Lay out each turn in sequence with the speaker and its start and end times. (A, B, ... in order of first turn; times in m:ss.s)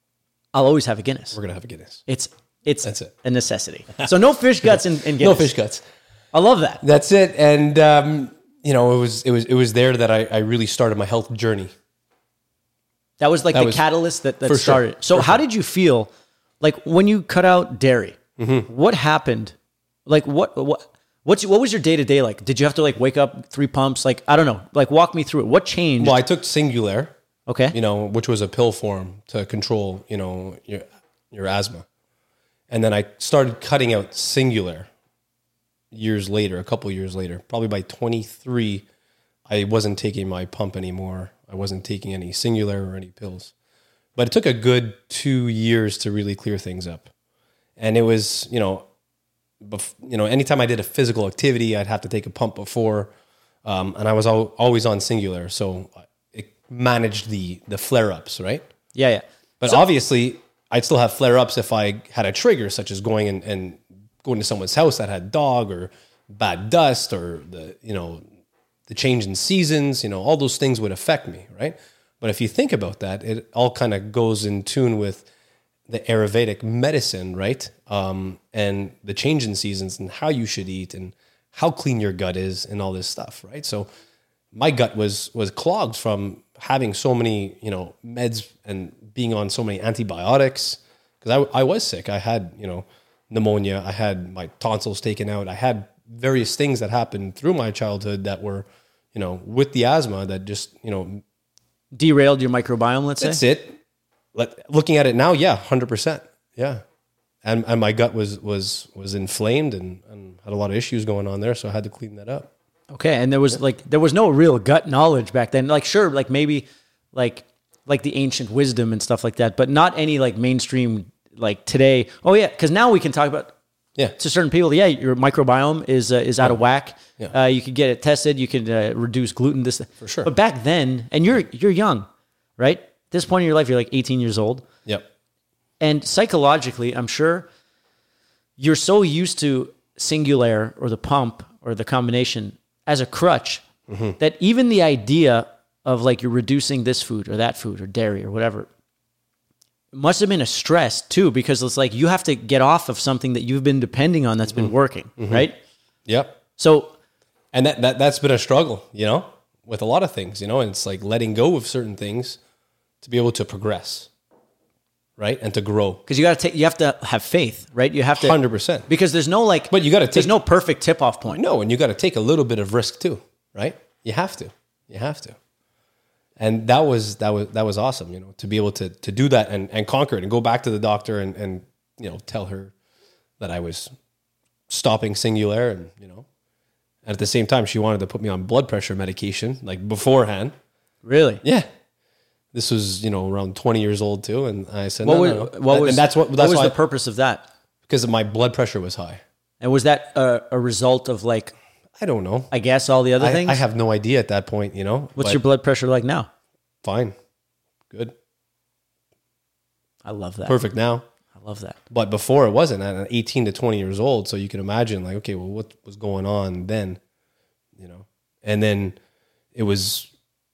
0:00.5-0:01.4 A
0:01.3-0:02.0 B
0:02.1-0:05.5 A
0:02.8-0:03.1 B
0:04.6-0:05.8 B
0:06.3-0:06.8 A
0:06.8-0:11.7 B
0:13.2-0:16.1 A
0:13.5-0:13.8 B
0:14.4-0:15.4 B
0:16.6-0:19.5 A
0:18.4-0:18.7 B
0:20.1-0:26.2 A
0:26.0-0:27.1 B
0:27.5-0:27.8 A
0:27.7-0:31.8 B
0:32.7-0:34.9 B
0:35.9-0:38.9 B
0:39.5-0:43.5 B
0:44.2-0:47.1 B
0:47.8-0:48.9 B
0:49.6-0:53.1 B
0:53.6-0:58.6 B
0:59.0-0:59.8 A
0:59.6-1:08.2 B
1:08.9-1:15.3 B
1:15.9-1:23.9 B
1:24.5-1:41.2 B
1:41.9-1:43.4 A
1:43.2-1:43.8 B
1:44.4-1:46.8 B
1:47.4-1:52.5 B
1:52.9-2:03.5 A
2:04.2-2:12.1 A
2:10.0-2:10.3 B
2:12.6-2:14.6 A
2:15.8-2:17.5 A
2:18.6-2:23.6 A
2:23.9-2:24.2 B
2:24.2-2:28.7 A
2:29.9-2:35.6 A
2:34.5-2:35.5 B
2:36.1-2:36.4 B
2:36.6-2:36.9 A
2:37.5-2:42.4 B
2:43.0-2:44.1 B
2:45.2-2:46.0 B
2:46.1-2:51.4 A
2:48.2-2:48.9 B
2:49.7-2:50.4 B
2:51.3-2:55.4 B
2:56.4-3:02.7 B
3:03.4-3:03.9 B
3:04.7-3:06.3 B
3:07.0-3:10.5 B
3:11.0-3:11.4 A
3:12.5-3:16.8 B
3:15.0-3:17.5 A
3:17.9-3:19.2 B
3:19.6-3:21.5 A
3:22.0-3:22.5 B
3:22.5-3:23.6 A
3:23.2-3:25.4 B
3:25.2-3:26.3 A
3:26.8-3:27.2 B
3:30.0-3:30.6 A
3:30.5-3:31.0 B
3:31.4-3:31.8 A
3:31.9-3:37.0 B
3:37.8-3:39.0 B
3:39.5-3:40.1 B